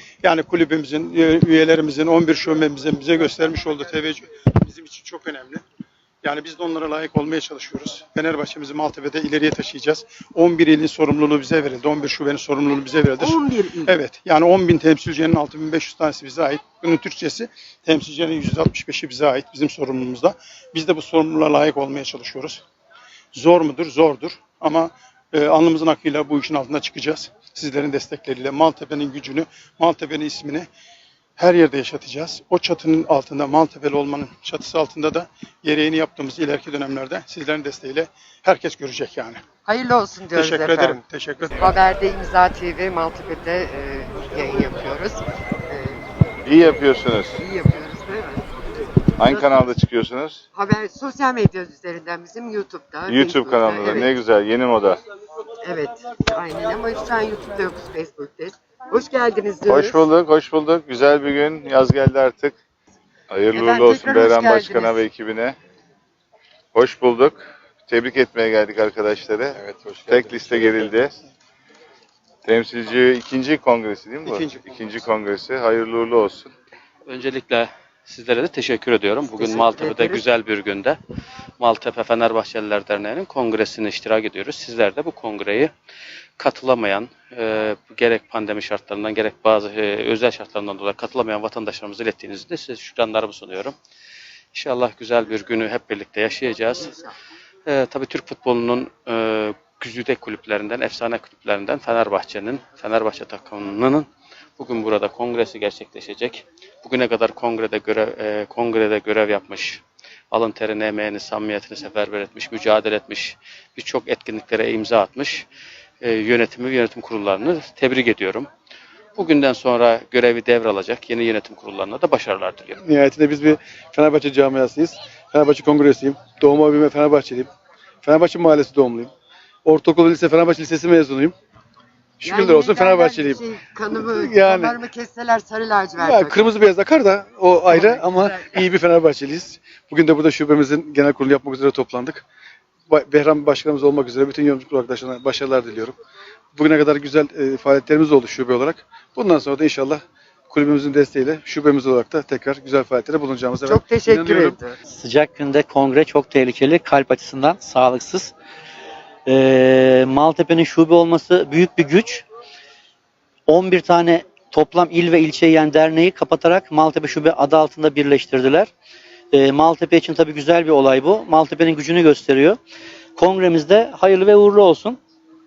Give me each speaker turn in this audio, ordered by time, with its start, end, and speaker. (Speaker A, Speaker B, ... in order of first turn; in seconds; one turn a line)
Speaker A: 0.2-5.6
Speaker A: 6.2-13.4
Speaker B: 13.2-14.0
Speaker A: 13.9-22.6
Speaker A: 23.3-30.7
Speaker A: 31.4-39.4
Speaker B: 39.6-46.0
Speaker A: 40.4-41.5
Speaker C: 46.5-47.4
Speaker B: 47.4-48.5
Speaker B: 49.2-49.7
Speaker C: 49.2-50.4
Speaker B: 50.5-54.1
Speaker C: 53.1-55.0
Speaker B: 55.6-60.0
Speaker C: 59.7-62.6
Speaker C: 63.3-65.6
Speaker B: 63.5-65.0
Speaker C: 66.7-71.2
Speaker D: 69.5-70.9
Speaker C: 72.5-76.5
Speaker E: 77.1-81.0
Speaker B: 79.4-80.2
Speaker E: 81.6-85.7
Speaker E: 86.4-93.8
Speaker E: 94.5-97.0
Speaker E: 97.7-104.1
Speaker E: 104.6-115.5
Speaker E: 116.0-118.5
Speaker E: 119.2-122.8
Speaker D: 122.8-127.5
Speaker D: 128.0-129.1
Speaker D: 129.7-131.3
Speaker D: 132.2-134.8
Speaker B: 132.2-136.5
Speaker D: 136.0-142.2
Speaker B: 137.7-138.7
Speaker D: 142.9-146.0
Speaker D: 146.6-154.6
Speaker B: 153.7-154.8
Speaker F: 154.9-158.3
Speaker F: 159.3-162.2
Speaker F: 163.5-168.7
Speaker F: 169.3-172.6
Speaker F: 173.2-175.0